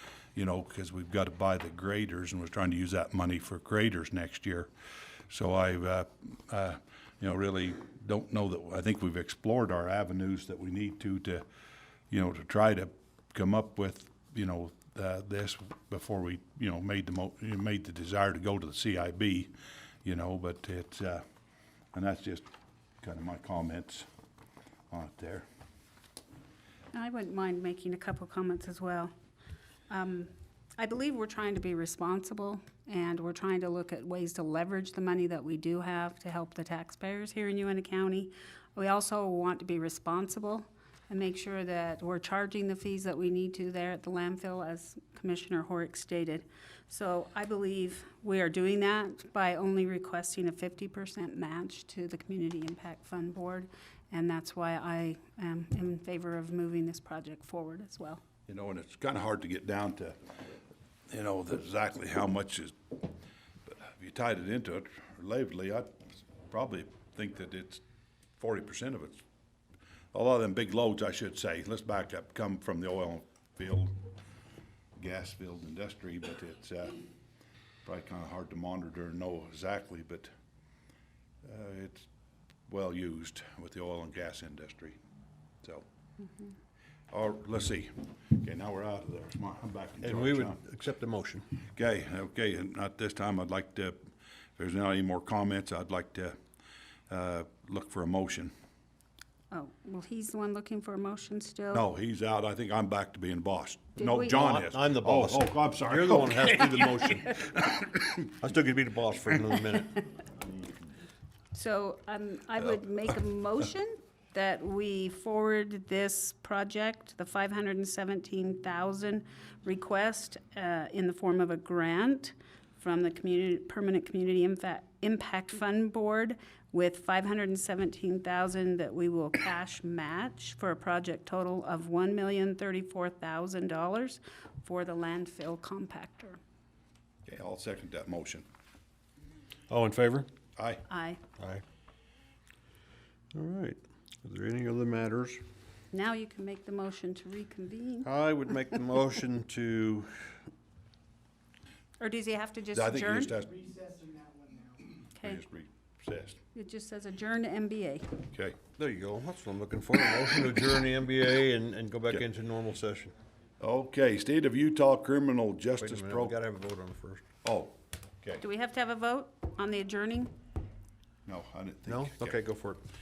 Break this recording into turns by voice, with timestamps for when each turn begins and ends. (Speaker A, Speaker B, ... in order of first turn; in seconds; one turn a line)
Speaker A: 0.3-4.7
Speaker A: 5.3-11.4
Speaker A: 12.1-19.5
Speaker A: 20.0-21.2
Speaker A: 21.9-22.4
Speaker A: 23.0-24.1
Speaker A: 24.9-25.5
Speaker B: 26.9-29.1
Speaker B: 29.9-58.2
Speaker A: 58.5-60.2
Speaker A: 61.1-63.0
Speaker A: 63.7-67.8
Speaker A: 68.4-69.2
Speaker A: 70.1-74.0
Speaker A: 75.0-77.0
Speaker A: 77.8-80.3
Speaker A: 81.4-82.1
Speaker A: 82.7-85.0
Speaker A: 87.1-90.6
Speaker C: 90.0-91.5
Speaker A: 91.8-96.4
Speaker A: 97.1-98.5
Speaker B: 99.5-101.8
Speaker A: 101.7-108.2
Speaker B: 104.0-104.5
Speaker C: 104.0-107.3
Speaker C: 108.4-110.0
Speaker B: 111.5-136.4
Speaker A: 137.3-138.5
Speaker C: 139.7-140.3
Speaker A: 140.6-140.8
Speaker B: 140.9-141.2
Speaker C: 143.3-145.4
Speaker B: 145.9-148.1
Speaker C: 148.0-150.3
Speaker B: 152.0-153.3
Speaker A: 152.7-153.9
Speaker A: 155.2-156.4
Speaker B: 156.6-158.1
Speaker A: 158.3-158.6
Speaker C: 158.8-163.1
Speaker A: 163.6-166.3
Speaker C: 165.8-167.2
Speaker A: 167.4-168.4
Speaker B: 168.4-170.3
Speaker A: 171.3-172.4
Speaker C: 171.9-172.8